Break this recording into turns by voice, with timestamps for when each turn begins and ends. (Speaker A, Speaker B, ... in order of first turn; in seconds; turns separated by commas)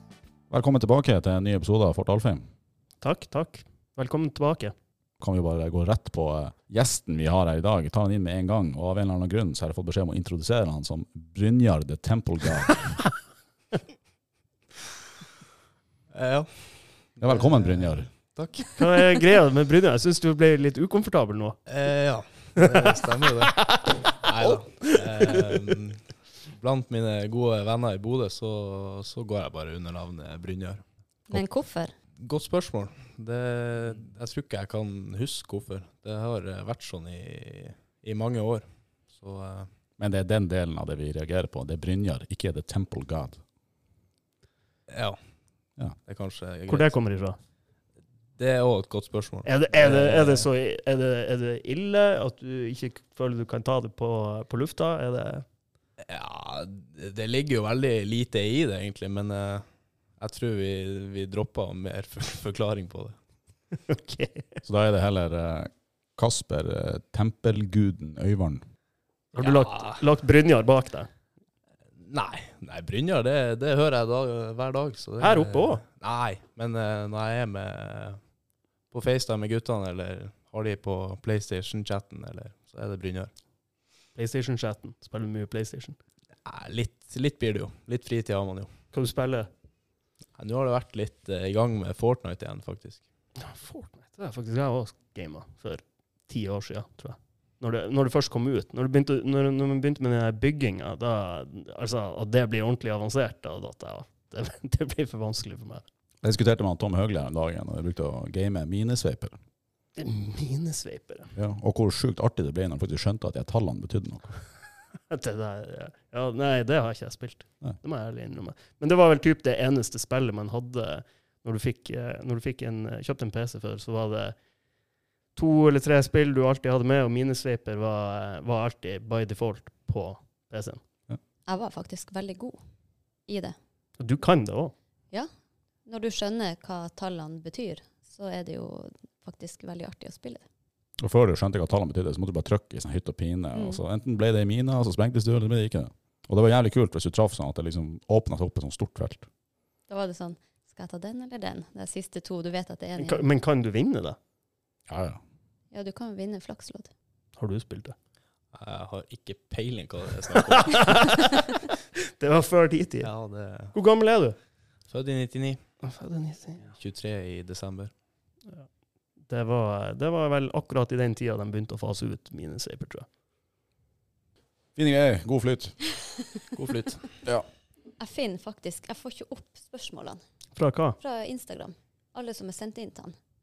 Speaker A: 0.5-2.4, Speaker B: 3.0-4.7, Speaker A: 5.2-13.0, Speaker C: 16.1-19.0, Speaker A: 17.2-18.1, Speaker B: 18.8-21.6, Speaker C: 21.7-30.8, Speaker B: 22.6-25.5, Speaker D: 31.3-31.9, Speaker C: 32.1-39.7, Speaker A: 40.0-43.4, Speaker C: 44.9-45.2, Speaker C: 46.0-46.9, Speaker B: 46.7-47.4, Speaker C: 48.4-50.5, Speaker B: 49.4-55.4, Speaker C: 56.0-59.6, Speaker C: 60.2-63.1, Speaker B: 63.9-64.5, Speaker A: 64.6-68.6, Speaker B: 69.3-71.1, Speaker C: 69.4-70.0, Speaker C: 72.0-78.2, Speaker B: 75.2-75.8, Speaker C: 78.9-83.3, Speaker B: 84.1-86.0, Speaker C: 86.4-88.7, Speaker B: 88.9-89.5, Speaker C: 90.4-93.0, Speaker B: 93.4-105.8, Speaker A: 106.2-109.3, Speaker B: 110.0-111.3, Speaker A: 111.3-114.3, Speaker B: 115.1-124.3, Speaker B: 125.3-130.8, Speaker D: 131.5-132.6, Speaker D: 133.2-133.6, Speaker B: 134.0-134.7, Speaker D: 135.8-140.4, Speaker A: 141.0-149.2, Speaker D: 143.5-143.8, Speaker D: 149.9-153.2, Speaker B: 153.0-154.2, Speaker A: 154.9-155.2, Speaker D: 155.7-156.9, Speaker B: 157.4-157.9, Speaker C: 158.5-161.3, Speaker B: 160.5-163.1, Speaker C: 163.0-163.7, Speaker B: 163.7-164.3, Speaker C: 164.9-165.6, Speaker B: 165.8-166.7, Speaker C: 166.7-167.9, Speaker B: 169.3-173.1, Speaker A: 174.8-175.8, Speaker C: 176.5-177.1, Speaker D: 178.0-180.2, Speaker B: 180.6-181.0, Speaker D: 181.0-183.2